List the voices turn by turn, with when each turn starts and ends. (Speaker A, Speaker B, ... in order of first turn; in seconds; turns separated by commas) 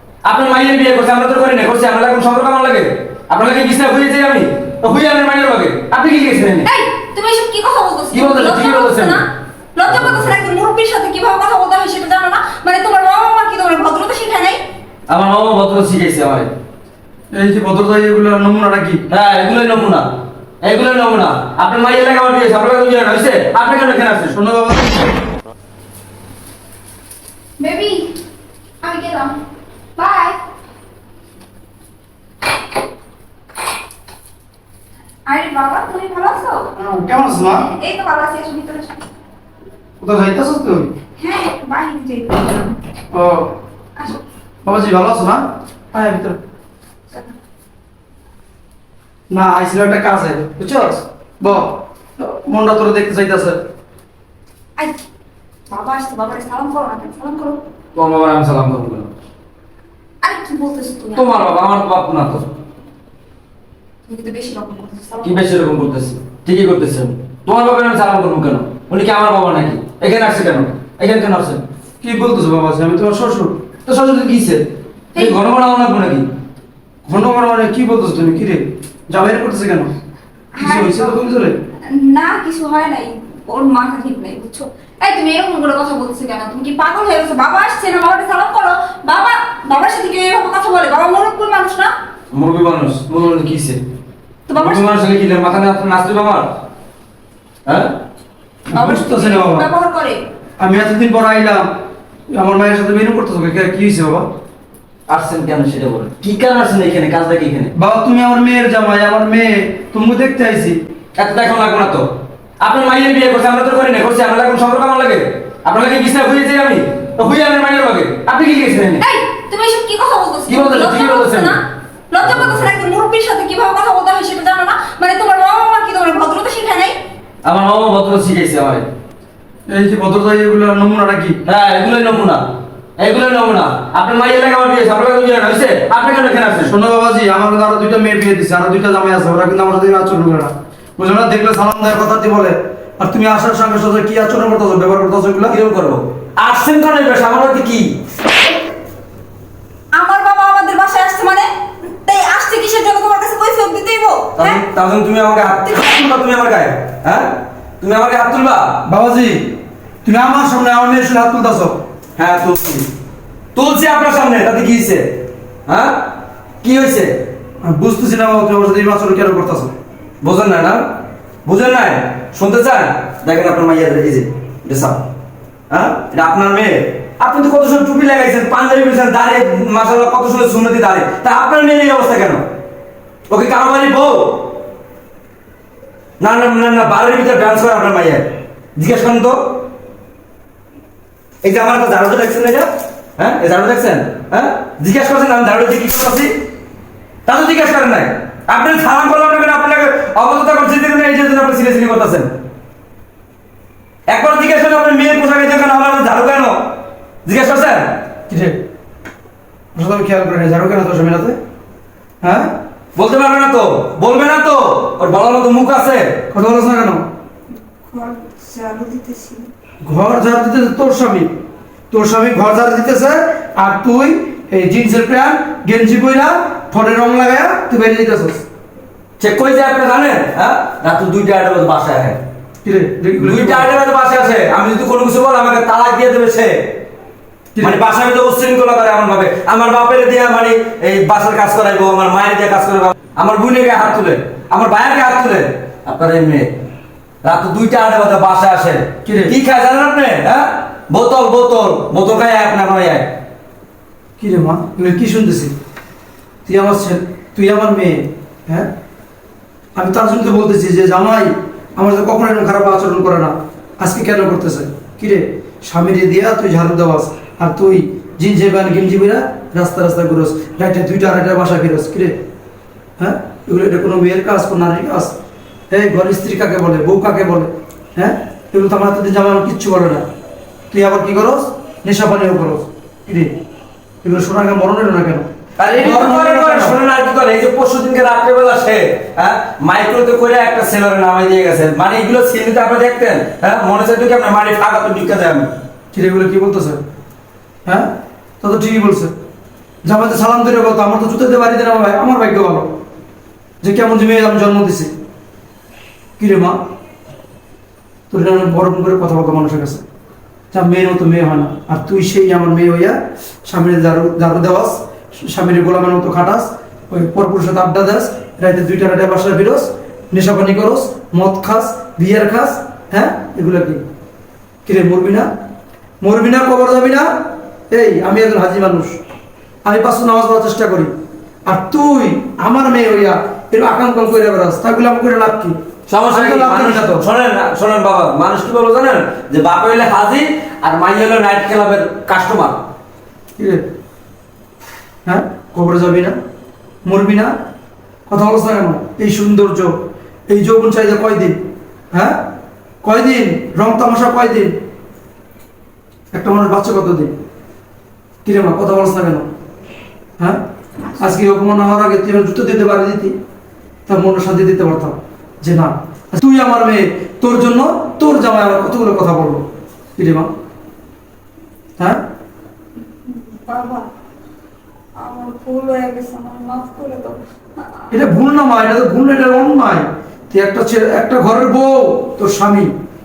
Speaker A: 0.2-6.7, Speaker B: 6.6-9.2, Speaker A: 8.1-9.2, Speaker B: 9.7-14.6, Speaker A: 9.8-10.3, Speaker A: 15.1-16.5, Speaker C: 17.3-19.0, Speaker A: 19.1-20.1, Speaker A: 20.6-24.4, Speaker C: 24.3-25.1, Speaker B: 27.6-28.1, Speaker B: 28.8-29.4, Speaker B: 29.9-30.4, Speaker B: 35.2-36.7, Speaker C: 36.8-37.6, Speaker B: 37.4-39.0, Speaker C: 40.0-40.9, Speaker B: 41.2-42.8, Speaker C: 43.1-43.5, Speaker B: 44.0-44.2, Speaker C: 44.6-46.4, Speaker C: 49.3-53.6, Speaker B: 55.7-57.6, Speaker A: 57.9-59.1, Speaker B: 60.2-61.4, Speaker A: 61.1-62.5, Speaker B: 64.1-65.4, Speaker A: 65.2-71.6, Speaker C: 72.0-73.5, Speaker A: 73.8-74.6, Speaker A: 75.1-76.2, Speaker C: 77.0-79.9, Speaker B: 80.5-81.2, Speaker C: 80.6-81.5, Speaker B: 81.9-91.9, Speaker A: 92.3-93.8, Speaker B: 94.5-94.8, Speaker A: 94.5-96.5, Speaker A: 97.7-97.9, Speaker C: 98.7-99.7, Speaker B: 98.7-100.2, Speaker C: 100.6-101.7, Speaker C: 102.3-104.3, Speaker A: 105.1-107.7, Speaker C: 107.7-110.8, Speaker A: 111.2-112.1, Speaker A: 112.6-119.0, Speaker B: 119.0-127.0, Speaker A: 120.5-121.6, Speaker A: 122.2-122.7, Speaker A: 127.4-128.8, Speaker C: 129.7-131.4, Speaker A: 131.4-132.4, Speaker A: 133.0-136.7, Speaker C: 136.7-145.5, Speaker A: 145.5-147.9, Speaker B: 149.9-154.6, Speaker A: 154.4-158.7, Speaker C: 158.8-161.8, Speaker A: 162.2-162.8, Speaker A: 163.5-165.1, Speaker A: 165.7-166.0, Speaker A: 166.6-167.1, Speaker C: 167.6-169.7, Speaker A: 170.2-170.8, Speaker A: 171.4-175.0, Speaker A: 175.7-182.4, Speaker A: 183.3-184.5, Speaker A: 186.2-189.4, Speaker A: 191.4-192.7, Speaker A: 193.2-196.3, Speaker A: 197.2-202.3, Speaker A: 204.1-206.6, Speaker A: 207.2-207.9, Speaker C: 208.3-208.6, Speaker C: 209.7-211.4, Speaker C: 212.2-212.5, Speaker A: 212.9-216.1, Speaker C: 216.3-217.0, Speaker B: 217.8-219.4, Speaker C: 219.8-221.3, Speaker C: 221.9-228.4, Speaker A: 229.2-232.2, Speaker C: 232.6-233.7, Speaker A: 233.2-236.5, Speaker A: 237.6-246.5, Speaker A: 247.2-253.1, Speaker C: 249.0-249.3, Speaker C: 254.2-255.5, Speaker C: 256.4-258.7, Speaker C: 259.8-272.1, Speaker C: 273.0-275.1, Speaker C: 275.7-280.0, Speaker C: 280.7-283.3, Speaker C: 284.0-286.8, Speaker A: 285.6-295.5, Speaker C: 295.9-296.8, Speaker C: 298.4-299.1, Speaker C: 299.8-302.7, Speaker C: 303.6-304.9, Speaker C: 306.2-306.6, Speaker C: 308.1-309.8, Speaker C: 310.5-323.8, Speaker C: 324.6-325.3, Speaker C: 326.0-327.1, Speaker C: 327.7-329.0, Speaker C: 329.6-330.9, Speaker C: 331.4-335.5, Speaker A: 335.9-342.6, Speaker C: 336.1-337.0, Speaker C: 343.4-343.6, Speaker C: 345.0-346.1, Speaker C: 346.8-347.3, Speaker C: 348.1-349.7, Speaker C: 350.3-351.4, Speaker C: 351.9-352.2, Speaker C: 352.8-354.6, Speaker C: 356.1-357.1, Speaker C: 358.2-359.2, Speaker C: 361.0-363.1, Speaker C: 363.9-369.4, Speaker C: 370.0-370.3, Speaker B: 373.0-373.9, Speaker B: 375.0-378.0, Speaker C: 377.9-382.7